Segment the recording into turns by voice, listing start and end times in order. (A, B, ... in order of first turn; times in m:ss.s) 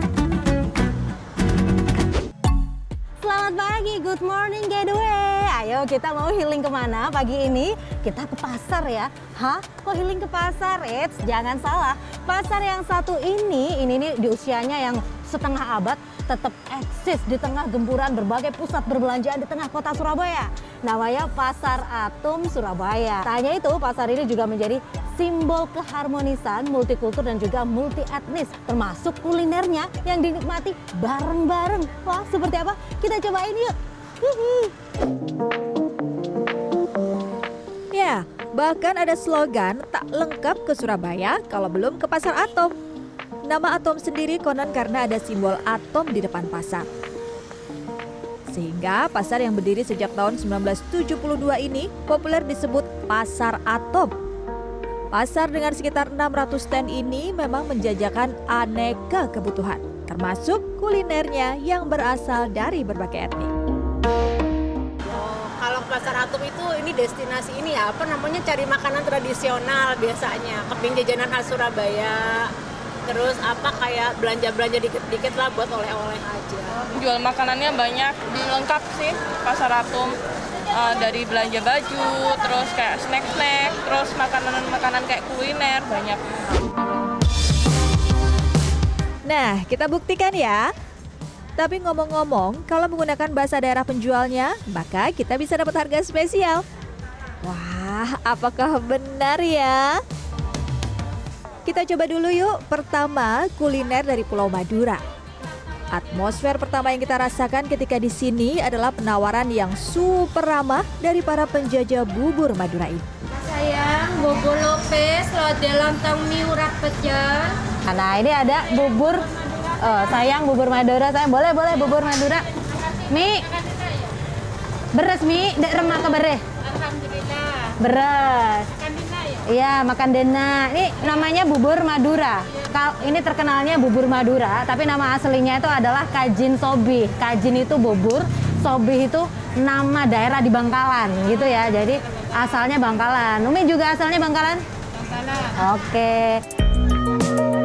0:03.2-0:34.7 A
0:37.9-0:42.7 B
0:43.5-0:46.9 B
0:48.5-0:54.1 B
0:55.1-1:03.5 B
1:05.0-1:12.5 C
1:13.0-1:16.9 C
1:17.0-1:20.2 D
1:20.7-1:26.2 D
1:29.2-1:30.7 B
1:31.6-1:36.6 B
1:37.4-1:40.0 B
1:41.6-1:45.0 B
1:45.9-1:53.0 B
1:54.1-1:57.0 E
1:57.8-2:02.4 A
2:03.0-2:03.7 A
2:04.9-2:06.4 A
2:06.8-2:07.7 C
2:07.7-2:24.6 A
2:25.4-2:26.4 A